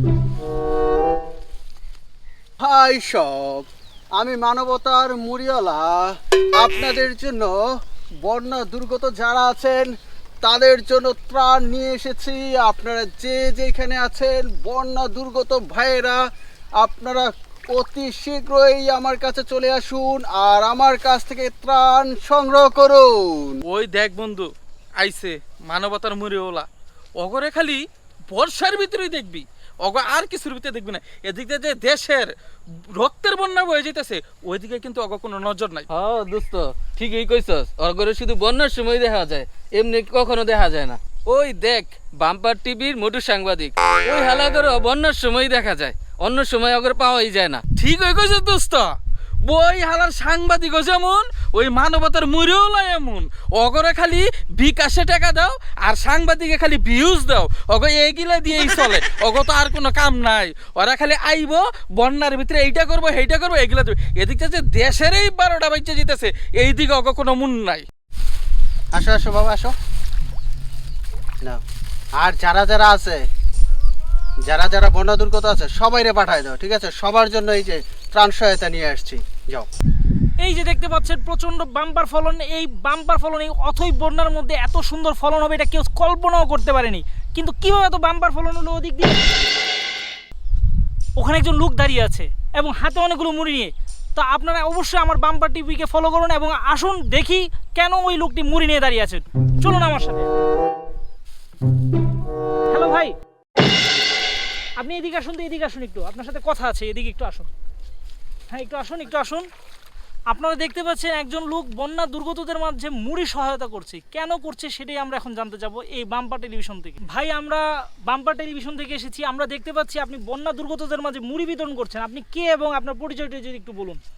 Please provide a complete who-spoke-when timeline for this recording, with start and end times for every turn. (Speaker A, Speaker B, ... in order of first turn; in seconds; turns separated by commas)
Speaker A: 2.6-7.6, Speaker A: 8.2-16.2, Speaker A: 16.8-23.6, Speaker B: 23.7-24.5, Speaker B: 25.0-26.7, Speaker B: 27.2-32.3, Speaker B: 33.0-35.9, Speaker C: 35.9-47.6, Speaker B: 47.8-48.9, Speaker B: 49.5-67.9, Speaker A: 68.9-69.7, Speaker A: 72.2-73.2, Speaker A: 74.5-79.7, Speaker D: 80.4-89.2, Speaker D: 91.2-100.4, Speaker D: 102.7-103.1, Speaker D: 104.8-107.5, Speaker D: 108.5-109.5, Speaker D: 110.3-124.0